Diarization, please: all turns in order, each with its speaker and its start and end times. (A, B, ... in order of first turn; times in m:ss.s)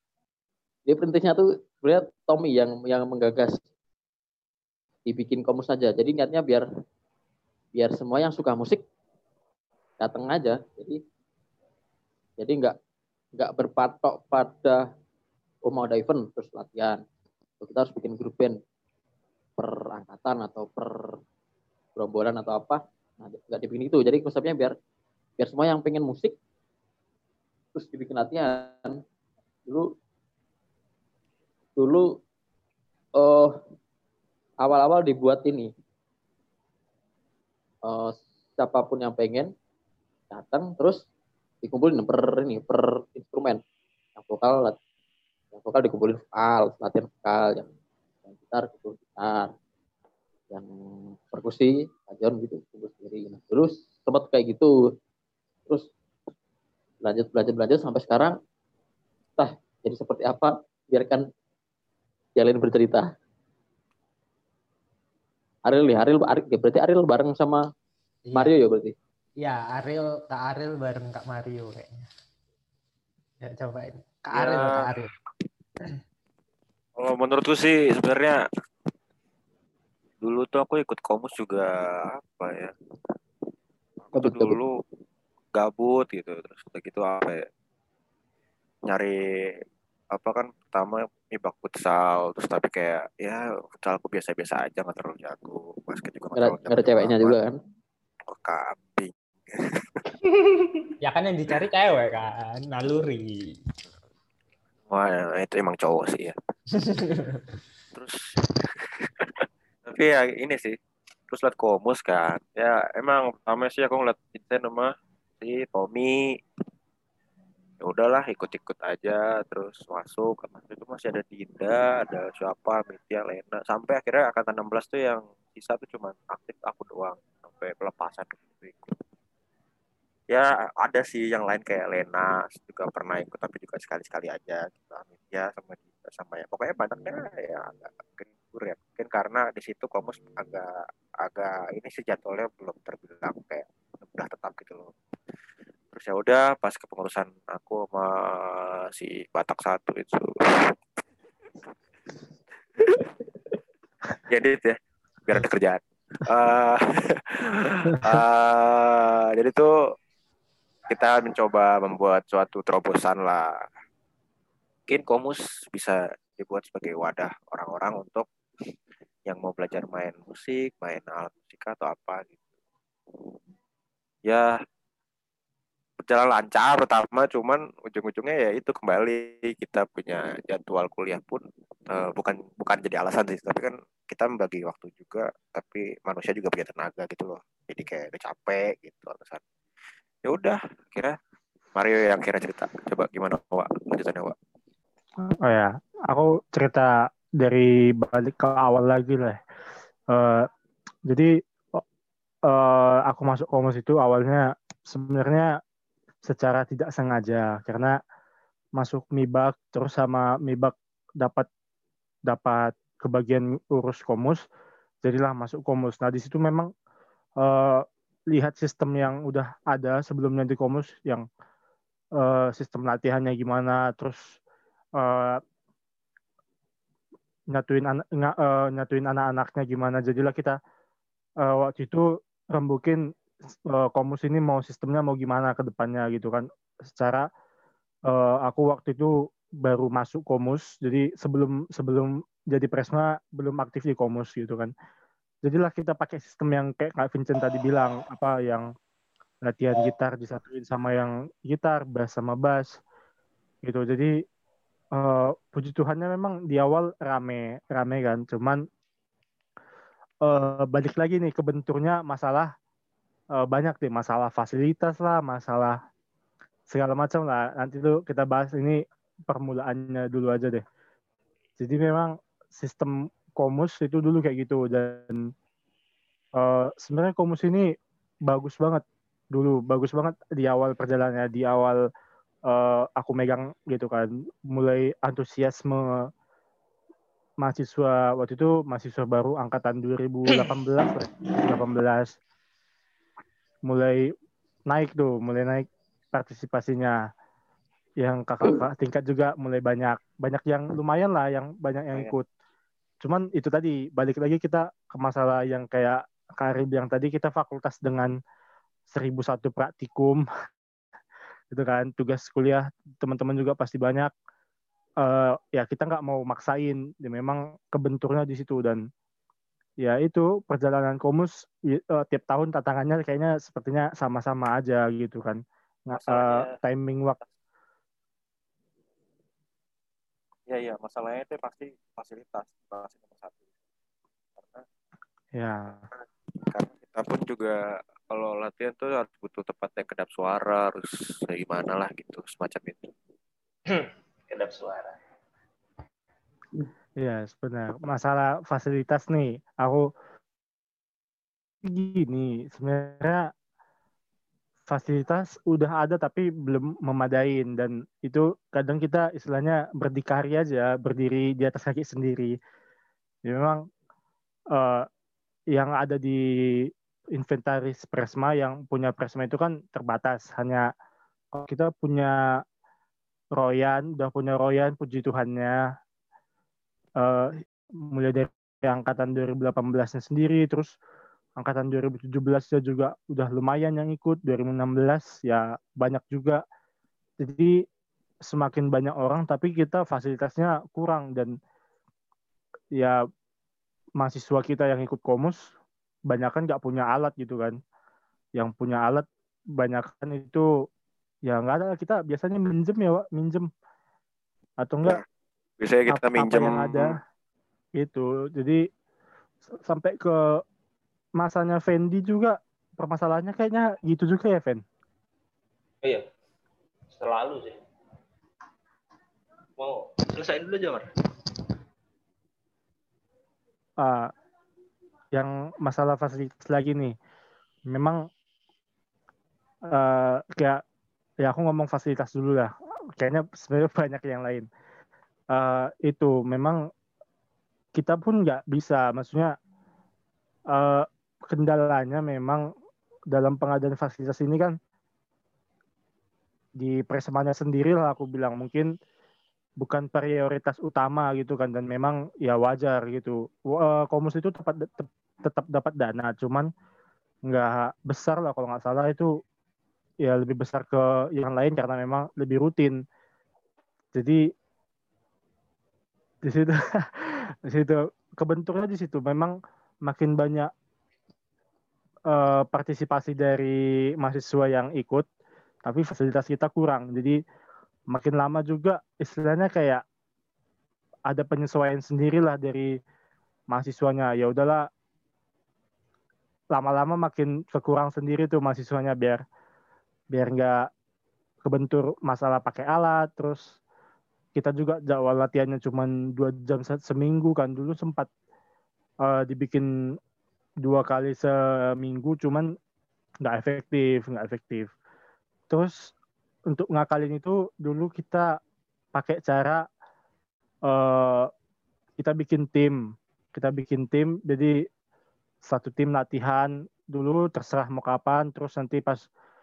0:00.9-0:03.6 A
0:05.1-0:06.6 A
0:07.8-0:08.8 A
0:10.0-0:11.0 A
0:12.4-0:12.8 A
0:13.4-0:14.8 A
0:15.6-0:17.0 A
0:17.6-0:18.6 A
0:19.6-0:21.2 A
0:22.0-0:24.8 A
0:25.4-0:26.4 A
0:27.7-0:29.0 A
0:31.8-0:32.2 A
0:33.2-0:33.6 A
0:34.6-0:35.7 A
0:37.9-0:39.5 A
0:40.3-0:41.0 A
0:41.6-0:43.6 A
0:44.2-0:44.8 A
0:45.5-0:47.7 A
0:48.3-0:49.5 A
0:50.5-0:54.7 A
0:57.0-0:58.4 A
0:59.4-1:01.3 A
1:02.4-1:03.1 A
1:05.6-1:07.6 A
1:08.3-1:08.5 B
1:08.4-1:08.9 A
1:09.4-1:11.9 B
1:13.4-1:15.1 B
1:14.3-1:14.9 C
1:17.0-1:18.4 C
1:20.2-1:22.7 C
1:24.0-1:24.7 C
1:24.2-1:24.6 A
1:25.6-1:27.5 C
1:28.9-1:29.1 C
1:30.1-1:37.4 C
1:36.4-1:37.6 A
1:38.3-1:40.0 C
1:41.0-1:43.5 B
1:44.9-1:46.4 C
1:46.8-1:47.4 B
1:47.9-1:48.2 C
1:48.7-1:50.8 C
1:51.3-1:56.4 C
1:57.8-2:09.0 C
2:10.3-2:24.9 C
2:25.9-2:30.8 C
2:32.8-2:33.1 C
2:34.3-2:39.7 C
2:40.9-2:43.5 C
2:44.9-2:48.3 C
2:49.3-2:52.4 C
2:56.0-3:09.4 C
3:10.2-3:11.2 C
3:11.8-3:14.4 C
3:15.2-3:19.4 D
3:20.1-3:20.5 D
3:21.1-3:21.8 D
3:22.5-3:25.5 D
3:26.2-3:28.0 D
3:28.8-3:31.5 D
3:32.3-3:34.4 D
3:35.0-3:36.7 D
3:37.4-3:41.2 D
3:42.2-3:44.4 D
3:45.0-3:45.4 D
3:47.5-3:50.6 D
3:51.4-3:53.0 D
3:53.7-3:57.3 D
3:58.1-4:04.7 D
4:05.4-4:08.7 D
4:09.4-4:12.8 D
4:13.6-4:14.2 D
4:14.9-4:18.6 D
4:20.2-4:22.5 D
4:23.4-4:25.8 D
4:26.7-4:30.6 D
4:31.6-4:35.3 D
4:36.4-4:37.7 D
4:38.3-4:41.8 D
4:42.5-4:46.1 D
4:47.4-4:52.2 D
4:53.7-4:54.1 D
4:54.7-4:57.0 D
4:58.0-5:02.3 D
5:03.0-5:08.2 D
5:08.9-5:10.3 D
5:11.5-5:14.1 D
5:15.0-5:18.8 D
5:19.8-5:27.2 D
5:25.9-5:26.6 C
5:30.5-5:33.4 C
5:34.4-5:34.6 C
5:35.4-5:35.8 D
5:35.9-5:37.6 C
5:38.1-5:42.9 C
5:43.7-5:45.0 E
5:47.0-5:49.9 D
5:51.6-5:53.3 D
5:54.7-6:02.4 D
6:03.2-6:03.6 D
6:04.5-6:04.9 D
6:05.5-6:10.7 D
6:11.3-6:12.2 D
6:13.4-6:15.6 D
6:17.0-6:20.7 D
6:21.4-6:26.4 D
6:27.2-6:27.6 D
6:28.3-6:31.3 D
6:34.0-6:35.5 D
6:36.1-6:37.6 D
6:38.4-6:40.5 D
6:41.3-6:43.5 D
6:44.6-6:45.0 D
6:45.6-6:47.0 C
6:45.9-6:47.0 D
6:47.8-6:48.6 D
6:49.6-6:50.4 D
6:51.2-6:54.6 D
6:56.9-6:57.6 E
6:59.6-7:00.9 E
7:03.8-7:04.1 D
7:05.1-7:07.0 D
7:07.7-7:08.1 D
7:09.7-7:10.6 D
7:11.2-7:14.5 D
7:15.3-7:16.6 D
7:17.8-7:19.3 D
7:20.5-7:22.4 D
7:23.1-7:24.6 D
7:26.6-7:28.7 D
7:29.6-7:36.5 D
7:37.3-7:39.1 D
7:40.0-7:42.8 D
7:43.9-7:44.2 D
7:46.2-7:50.5 D
7:52.1-7:55.1 D
7:55.6-7:57.2 D
7:57.9-7:59.8 D
8:01.1-8:02.8 D
8:03.5-8:04.7 D
8:06.5-8:09.2 D
8:10.1-8:10.7 D
8:11.4-8:13.6 D
8:14.4-8:18.1 D
8:19.0-8:19.7 D
8:20.6-8:22.5 D
8:23.2-8:24.7 D
8:25.5-8:25.9 D
8:26.5-8:28.4 D
8:29.0-8:29.6 D
8:30.7-8:31.3 D
8:32.0-8:32.8 D
8:33.3-8:34.6 D
8:35.5-8:39.1 D